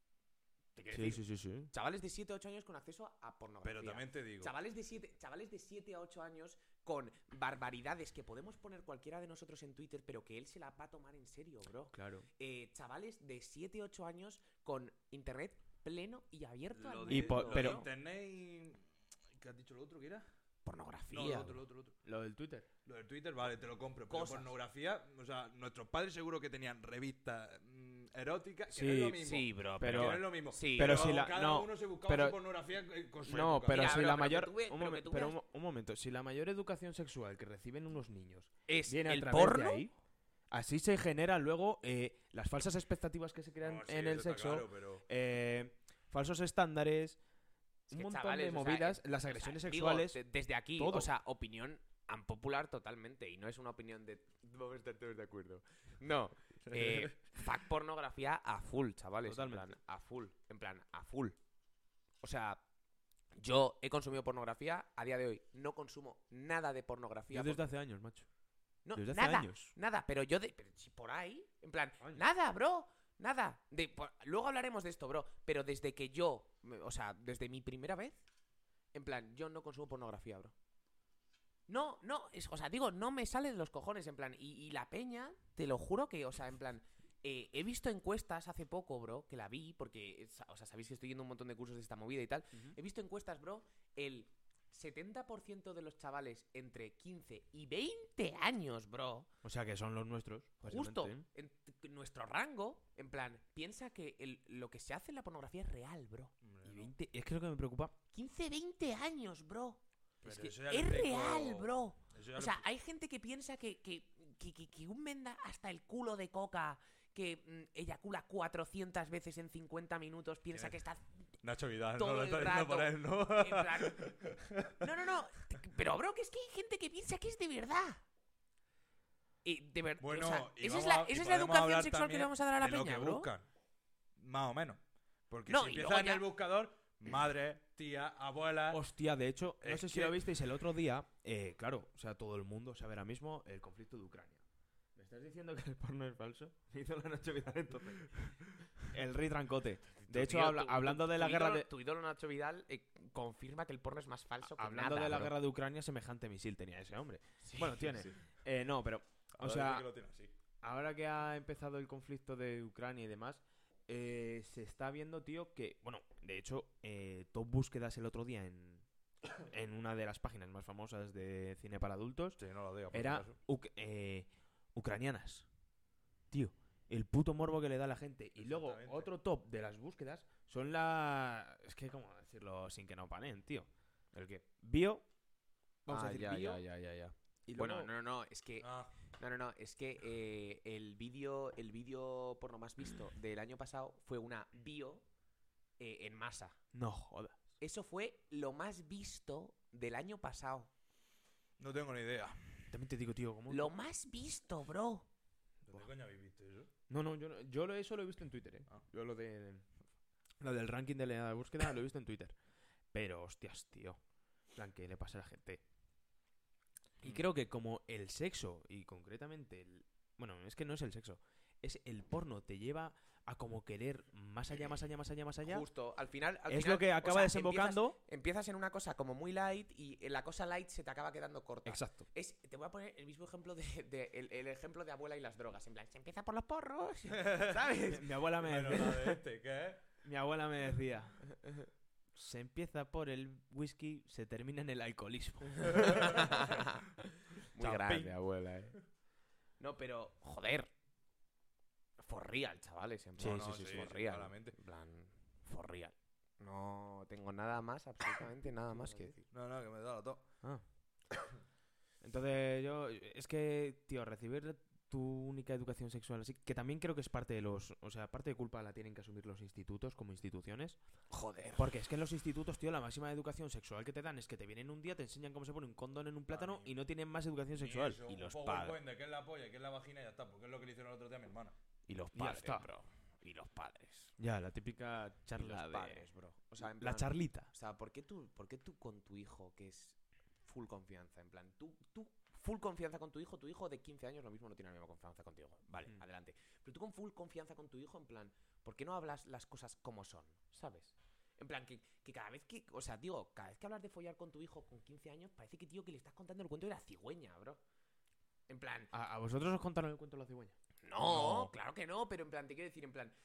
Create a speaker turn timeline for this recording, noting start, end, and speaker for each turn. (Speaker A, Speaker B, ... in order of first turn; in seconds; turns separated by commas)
Speaker A: 0.8-17.9, Speaker B: 0.9-1.7, Speaker C: 3.6-4.5, Speaker B: 11.9-12.3, Speaker C: 16.7-18.9, Speaker B: 17.1-17.8, Speaker C: 19.4-20.3, Speaker A: 20.6-21.6, Speaker C: 21.1-22.0, Speaker B: 22.1-22.7, Speaker C: 22.9-34.1, Speaker A: 24.1-24.5, Speaker B: 28.7-29.3, Speaker A: 29.2-31.2, Speaker B: 29.8-32.4, Speaker B: 33.2-39.9, Speaker A: 33.7-35.4, Speaker A: 38.7-39.8, Speaker B: 40.5-47.2, Speaker C: 43.6-45.1, Speaker B: 47.9-50.2, Speaker A: 47.9-61.4, Speaker B: 50.8-51.1, Speaker C: 56.7-57.0, Speaker B: 59.3-59.7, Speaker A: 62.2-62.6, Speaker A: 63.4-67.6, Speaker B: 67.3-68.3, Speaker A: 68.8-78.2, Speaker B: 69.0-69.7, Speaker A: 78.9-80.5, Speaker A: 81.7-99.3, Speaker B: 99.4-101.3, Speaker A: 100.6-106.3, Speaker C: 106.4-106.9, Speaker B: 106.6-108.0, Speaker A: 108.1-121.0, Speaker C: 110.2-112.6, Speaker C: 120.5-120.8, Speaker C: 121.4-125.0, Speaker A: 122.0-124.1, Speaker A: 124.8-128.0, Speaker A: 129.4-133.3, Speaker C: 130.0-133.5, Speaker C: 134.2-138.8, Speaker A: 135.5-136.2, Speaker B: 138.7-144.4, Speaker C: 139.6-140.2, Speaker B: 144.9-151.7, Speaker A: 150.0-155.4, Speaker B: 154.6-159.9, Speaker A: 157.4-158.1, Speaker C: 159.4-160.3, Speaker B: 160.6-168.9, Speaker B: 169.4-172.4, Speaker C: 172.4-173.4, Speaker B: 172.9-175.5, Speaker B: 176.3-183.7, Speaker C: 178.4-179.1, Speaker A: 184.1-184.4, Speaker B: 184.6-185.1, Speaker B: 185.9-186.6, Speaker A: 185.9-195.0, Speaker B: 187.5-187.9, Speaker C: 188.6-188.9, Speaker A: 195.8-196.6, Speaker B: 196.7-197.4, Speaker A: 197.6-200.7, Speaker C: 201.6-202.7, Speaker B: 202.7-203.7, Speaker A: 203.5-205.1, Speaker C: 205.7-206.7, Speaker B: 206.9-209.7, Speaker B: 210.4-212.3, Speaker B: 212.9-214.0, Speaker B: 214.6-215.6, Speaker B: 217.0-225.7, Speaker A: 225.4-237.6, Speaker B: 226.5-228.0, Speaker B: 231.7-232.1, Speaker C: 237.1-239.8, Speaker B: 237.5-239.2, Speaker B: 240.0-241.2, Speaker B: 242.2-246.5, Speaker A: 245.9-246.9, Speaker A: 247.5-248.8, Speaker C: 247.6-248.1, Speaker A: 249.6-250.7, Speaker A: 252.0-259.2, Speaker B: 253.2-253.7, Speaker C: 253.2-254.6, Speaker B: 258.7-259.1, Speaker C: 259.3-260.2, Speaker B: 262.0-270.8, Speaker A: 271.1-271.7, Speaker B: 271.6-278.0, Speaker C: 276.3-276.7, Speaker C: 277.5-281.6, Speaker A: 278.1-278.8, Speaker A: 281.9-284.1, Speaker B: 282.1-282.7, Speaker B: 284.2-286.1, Speaker A: 285.4-307.6, Speaker B: 286.6-287.5, Speaker A: 308.5-308.9, Speaker B: 308.9-310.6, Speaker A: 310.8-313.1, Speaker C: 311.0-311.5